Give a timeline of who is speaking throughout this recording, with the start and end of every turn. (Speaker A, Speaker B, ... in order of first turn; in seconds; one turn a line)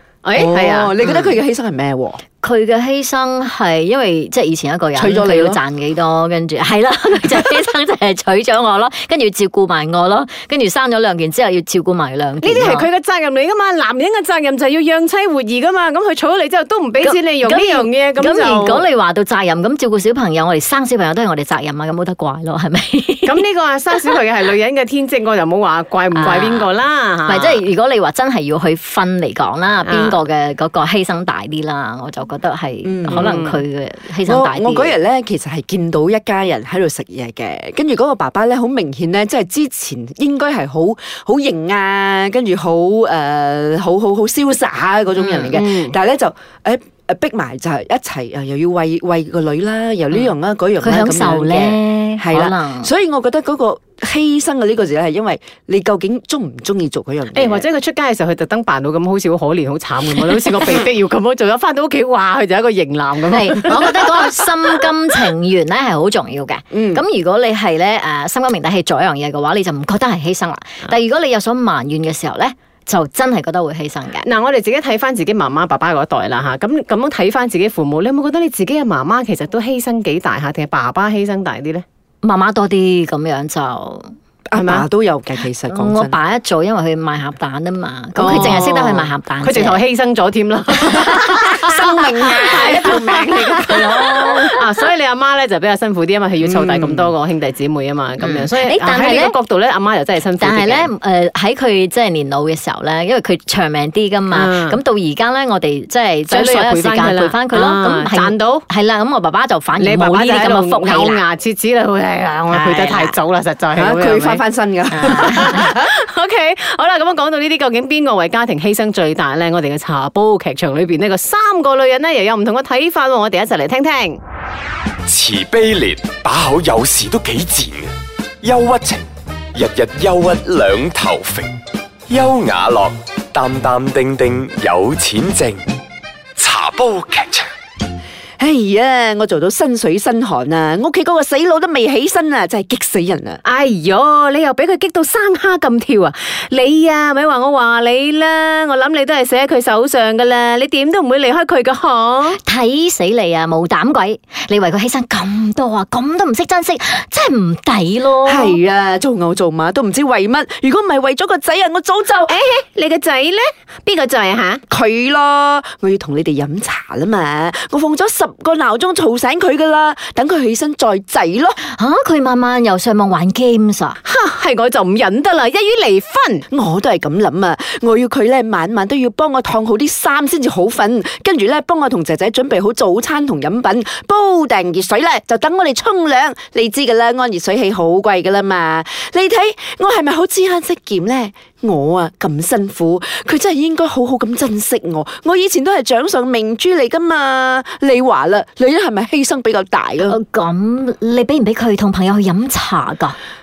Speaker A: 0.2-0.9
Speaker B: 0.3-2.2
Speaker C: 1.0-1.3
Speaker C: 2.4-12.9
Speaker B: 5.0-5.6
Speaker A: 12.4-18.9
Speaker C: 17.0-23.4
Speaker A: 23.2-27.6
Speaker C: 26.1-26.7
Speaker C: 27.2-35.0
Speaker A: 29.8-30.2
Speaker B: 32.8-33.3
Speaker A: 33.1-33.6
Speaker B: 34.2-57.6
Speaker A: 45.5-45.9
Speaker C: 50.8-52.9
Speaker A: 57.3-64.3
Speaker C: 63.3-74.3
Speaker B: 66.7-67.0
Speaker A: 74.2-81.8
Speaker C: 82.2-84.1
Speaker B: 84.5-86.2
Speaker A: 84.6-84.8
Speaker C: 85.7-89.8
Speaker A: 88.2-100.9
Speaker B: 91.3-94.5
Speaker C: 93.5-94.6
Speaker B: 96.4-97.1
Speaker C: 98.2-99.3
Speaker C: 100.4-111.2
Speaker A: 104.3-104.8
Speaker A: 106.3-108.7
Speaker A: 109.8-114.4
Speaker C: 112.5-113.1
Speaker B: 113.8-115.9
Speaker C: 114.9-115.7
Speaker A: 115.1-124.2
Speaker D: 125.1-127.9
Speaker D: 128.4-131.6
Speaker D: 132.1-135.6
Speaker D: 136.4-137.4
Speaker B: 138.4-143.4
Speaker A: 143.4-152.4
Speaker C: 152.4-158.6
Speaker B: 158.2-162.3
Speaker A: 162.3-164.6
Speaker B: 164.7-171.6
Speaker C: 171.6-174.0
Speaker A: 174.0-176.4
Speaker B: 176.5-200.2
Speaker C: 200.1-203.2